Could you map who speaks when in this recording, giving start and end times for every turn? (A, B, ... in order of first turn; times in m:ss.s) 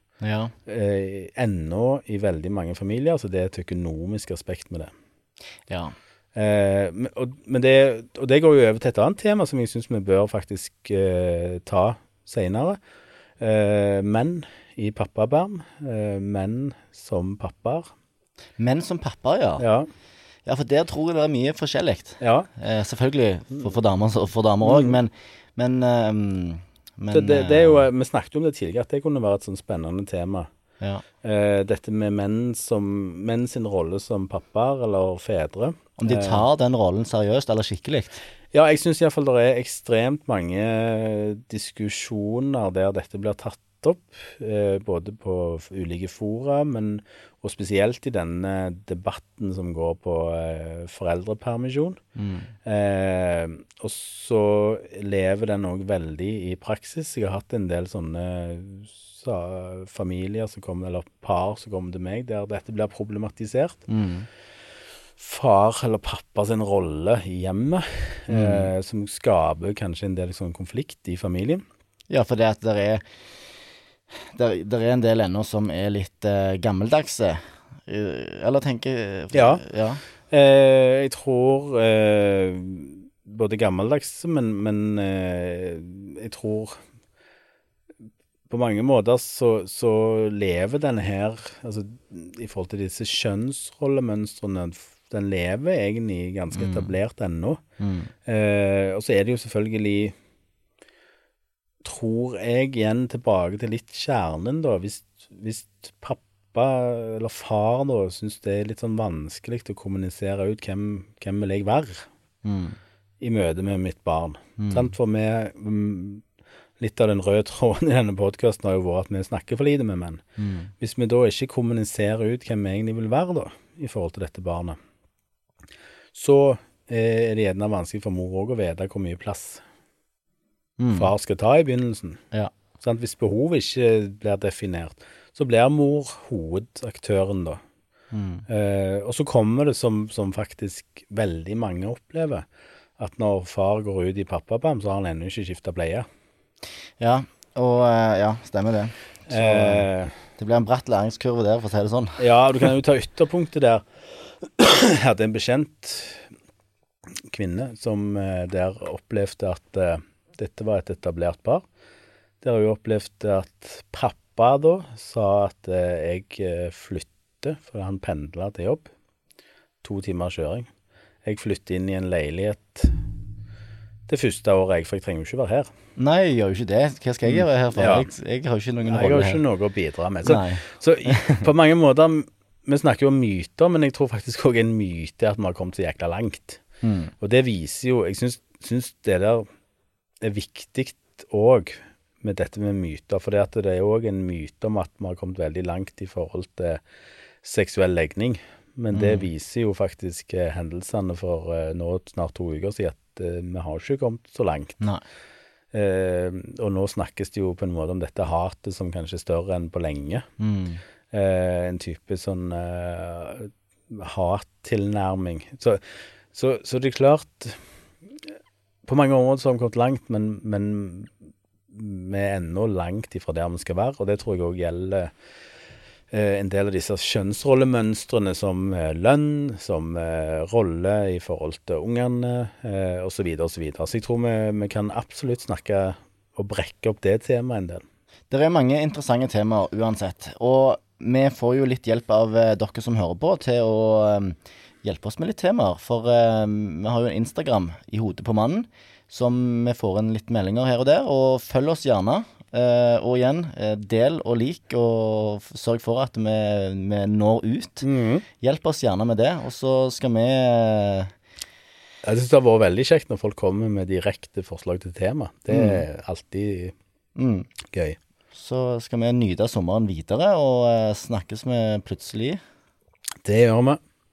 0:00.2-0:00.5 A
0:00.6-0:04.9 B
0:05.7-0:05.9 A
0:06.3-0:12.8 B
0:13.4-0:17.9 B
0:18.6-0:19.6 A
0:19.6-0:19.9 B
0:20.4-0:27.8 A
0:22.2-0:22.5 B
0:24.6-0:25.0 B
0:27.1-0:30.5 B
0:31.2-0:36.4 B
0:36.0-0:38.2 A
0:38.5-0:52.0 B
0:52.2-0:52.5 A
0:52.6-1:03.8 B
1:03.9-1:04.3 A
1:05.2-1:11.6 B
1:08.3-1:08.7 A
1:12.1-1:13.2 A
1:14.2-1:20.0 A
1:19.3-1:19.6 B
1:20.3-1:26.8 B
1:28.5-1:37.6 B
1:36.5-1:36.9 A
1:37.8-1:38.1 A
1:38.2-1:40.1 B
1:41.8-1:52.1 B
1:52.4-1:52.8 A
1:53.2-1:56.2 B
1:54.6-1:54.9 A
1:56.8-2:00.2 B
2:00.4-2:00.7 A
2:00.8-2:04.8 B
2:06.1-2:09.6 B
2:10.8-2:11.1 A
2:10.9-2:12.2 B
2:12.8-2:17.6 B
2:18.1-2:18.4 A
2:18.5-2:22.4 B
2:23.0-2:26.0 B
2:27.0-2:32.2 A
2:29.3-2:30.1 B
2:32.2-2:36.3 B
2:37.2-2:41.6 B
2:42.4-2:48.9 B
2:49.8-2:50.7 B
2:51.2-2:53.0 B
2:54.1-2:55.7 B
2:56.0-2:59.4 A
2:57.2-2:58.1 B
2:58.9-3:06.6 B
3:00.2-3:01.4 A
3:06.8-3:07.1 A
3:07.2-3:09.5 B
3:10.2-3:16.8 B
3:17.4-3:24.8 B
3:18.9-3:19.2 A
3:25.7-3:30.2 B
3:30.4-3:30.8 A
3:31.1-3:37.6 B
3:38.8-3:41.1 B
3:41.7-3:45.1 B
3:46.1-3:57.8 B
3:58.3-4:17.8 A
4:17.8-4:18.2 B
4:18.4-4:21.1 A
4:22.0-4:26.7 B
4:25.5-4:25.8 A
4:27.2-4:27.5 A
4:27.7-4:28.0 B
4:28.3-4:32.4 A
4:33.2-4:33.8 B